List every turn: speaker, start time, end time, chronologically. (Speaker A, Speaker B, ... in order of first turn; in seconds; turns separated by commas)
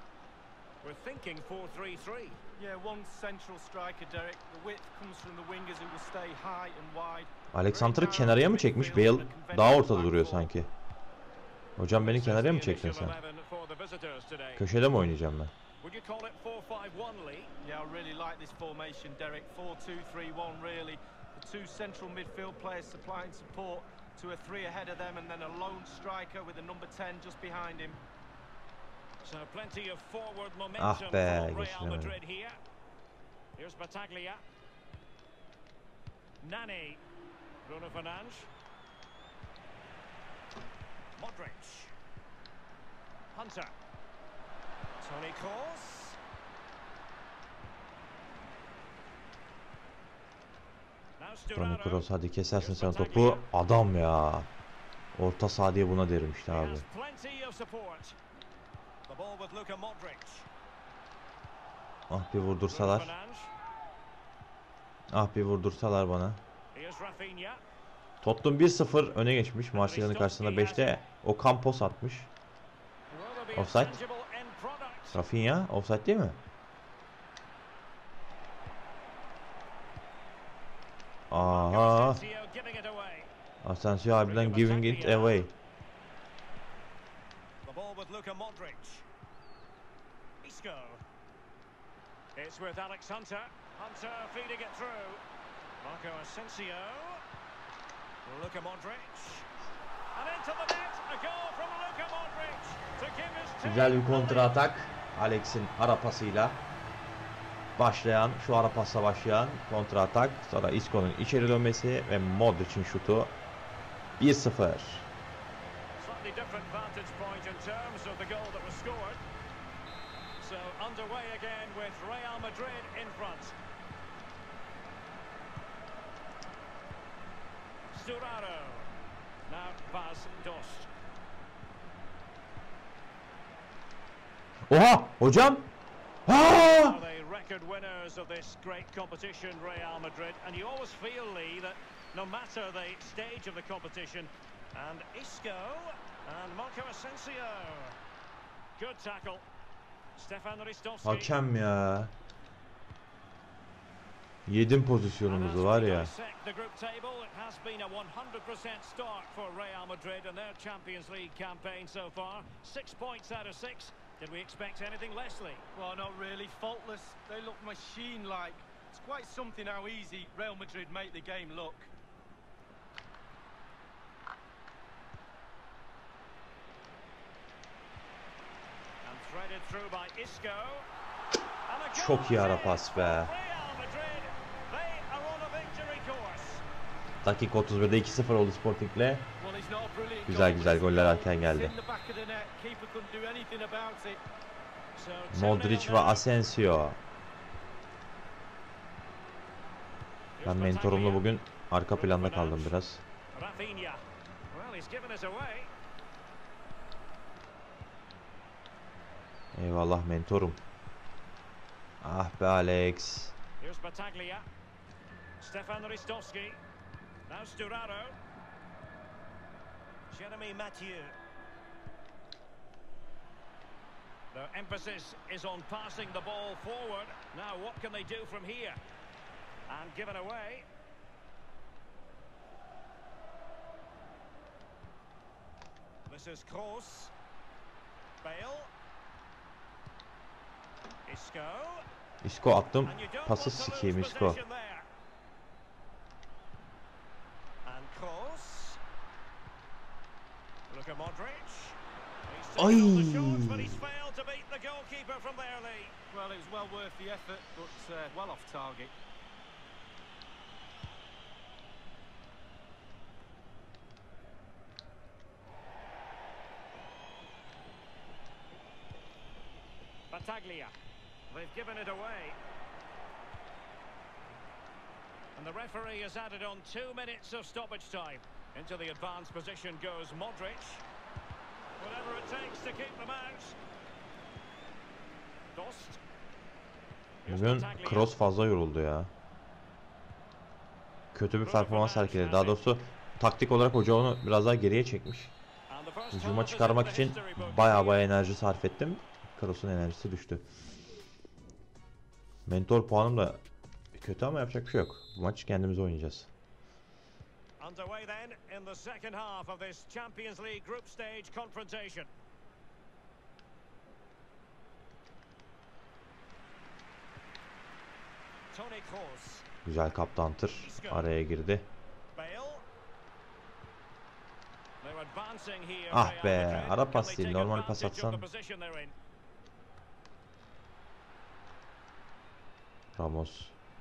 Speaker A: 0.8-2.4, Speaker B: 2.6-10.5, Speaker C: 7.5-10.7, Speaker C: 11.8-13.2, Speaker A: 12.0-14.7, Speaker C: 14.6-15.5, Speaker A: 15.8-17.5, Speaker B: 17.6-28.0, Speaker A: 29.2-32.6, Speaker C: 30.8-32.2, Speaker A: 33.6-34.4, Speaker A: 36.4-37.0, Speaker A: 37.6-38.5, Speaker A: 41.1-41.9, Speaker A: 43.3-43.7, Speaker A: 45.0-46.2, Speaker A: 51.2-53.5, Speaker C: 51.5-54.5, Speaker C: 55.1-56.9, Speaker A: 56.5-58.2, Speaker A: 59.1-60.5, Speaker C: 62.1-63.1, Speaker A: 62.6-63.5, Speaker C: 65.1-66.4, Speaker A: 66.7-67.6, Speaker C: 68.2-72.3, Speaker A: 69.7-71.0, Speaker A: 73.1-75.2, Speaker C: 73.5-74.0, Speaker C: 75.1-76.4, Speaker C: 81.3-82.2, Speaker A: 81.4-83.3, Speaker C: 83.6-85.5, Speaker A: 84.2-85.4, Speaker A: 87.6-89.0, Speaker A: 90.4-91.0, Speaker A: 92.3-95.2, Speaker A: 95.8-97.2, Speaker A: 98.2-99.5, Speaker A: 100.1-104.6, Speaker C: 103.6-106.6, Speaker C: 107.8-113.3, Speaker C: 114.2-115.1, Speaker A: 116.0-119.2, Speaker A: 120.4-123.6, Speaker A: 127.9-128.9, Speaker A: 129.5-130.9, Speaker C: 134.7-135.7, Speaker C: 136.3-137.0, Speaker A: 136.3-148.0, Speaker A: 148.8-149.4, Speaker A: 150.2-151.3, Speaker C: 151.0-152.1, Speaker C: 154.5-156.1, Speaker A: 155.2-165.6, Speaker B: 165.7-171.9, Speaker A: 179.0-180.9, Speaker A: 181.7-186.6, Speaker C: 181.9-183.3, Speaker C: 187.2-189.3, Speaker B: 189.4-194.2, Speaker C: 190.2-191.7, Speaker A: 194.9-196.2, Speaker C: 195.3-197.0, Speaker A: 200.4-201.3, Speaker C: 200.4-203.0, Speaker A: 201.9-202.8, Speaker A: 203.3-205.7, Speaker C: 209.5-210.6, Speaker C: 212.0-213.3, Speaker A: 213.6-214.4, Speaker A: 215.4-216.6, Speaker A: 217.3-218.2, Speaker A: 220.1-221.2, Speaker A: 224.3-228.8, Speaker A: 229.7-230.7, Speaker A: 236.1-237.1, Speaker A: 238.2-238.7, Speaker A: 241.1-241.8, Speaker C: 242.2-244.4, Speaker A: 242.8-244.9, Speaker A: 247.6-248.8, Speaker A: 250.7-255.9, Speaker C: 252.6-253.8, Speaker B: 256.1-258.9, Speaker A: 270.1-270.7, Speaker A: 271.3-272.4, Speaker A: 275.3-280.8, Speaker A: 281.8-283.6, Speaker A: 285.5-286.0, Speaker A: 287.2-288.2, Speaker C: 287.3-289.1, Speaker C: 291.1-295.3, Speaker A: 291.4-292.6, Speaker A: 295.7-298.1, Speaker C: 296.1-300.5, Speaker C: 302.4-303.4, Speaker C: 303.9-306.3, Speaker A: 307.6-312.1, Speaker A: 318.5-319.4, Speaker C: 319.6-321.7, Speaker A: 320.6-321.1, Speaker A: 322.1-322.6, Speaker A: 324.8-328.9, Speaker C: 325.9-328.2, Speaker C: 332.9-333.5